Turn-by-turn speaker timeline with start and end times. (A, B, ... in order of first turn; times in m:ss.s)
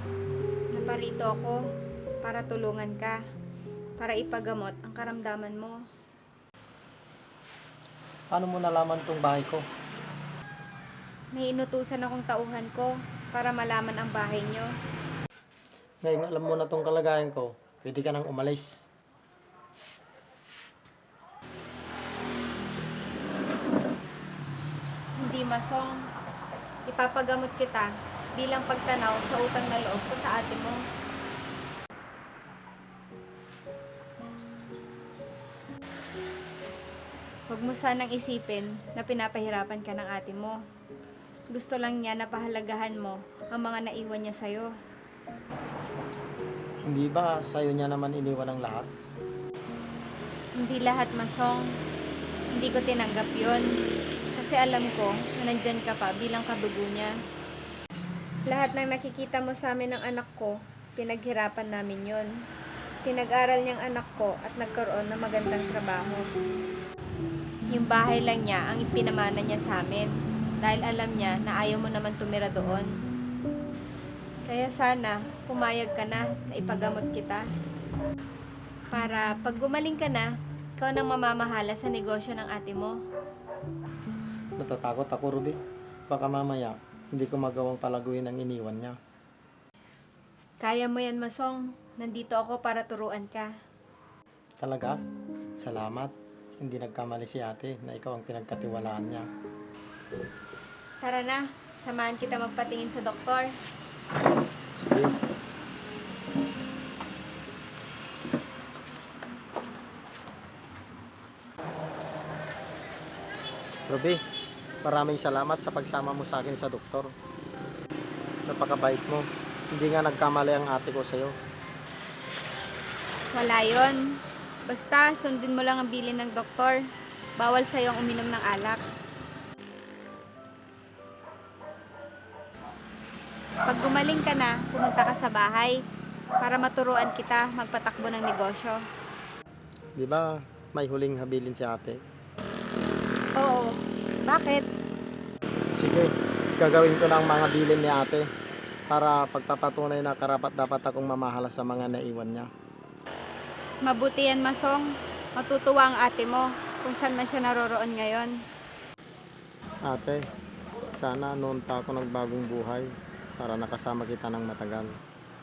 0:00.7-0:01.6 A
0:02.2-0:03.2 A
0:04.0-0:05.8 A
0:08.3-0:09.6 B
0:11.4-0:14.7 A
0:16.0-0:18.8 B
0:25.2-0:26.0 A
0:26.9-0:30.8 A
0:37.5-0:40.6 A
0:41.5-0:44.7 A
0:46.8-0:48.9 B
0:50.6-0:51.8 A
0:52.5-0:53.7 A
0:54.4-0:57.1 A
0:58.5-1:02.3 A
1:03.0-1:06.3 A
1:07.7-1:12.9 A
1:14.5-1:17.4 A
1:18.9-1:23.0 A
1:24.6-1:25.6 B
1:26.1-1:29.0 B
1:30.6-1:33.5 A
1:34.6-1:35.0 B
1:35.6-1:39.3 B
1:41.0-1:43.5 A
1:44.8-1:45.1 B
1:53.9-1:54.2 B
1:54.8-1:57.1 B
1:58.5-2:01.4 B
2:03.3-2:06.9 A
2:07.4-2:08.8 A
2:13.7-2:15.8 A
2:16.4-2:18.8 A
2:20.0-2:22.0 B
2:23.4-2:24.6 A
2:25.7-2:28.3 B
2:28.9-2:32.5 B
2:33.8-2:38.4 A
2:39.9-2:40.2 B
2:40.9-2:42.9 B
2:43.4-2:45.0 B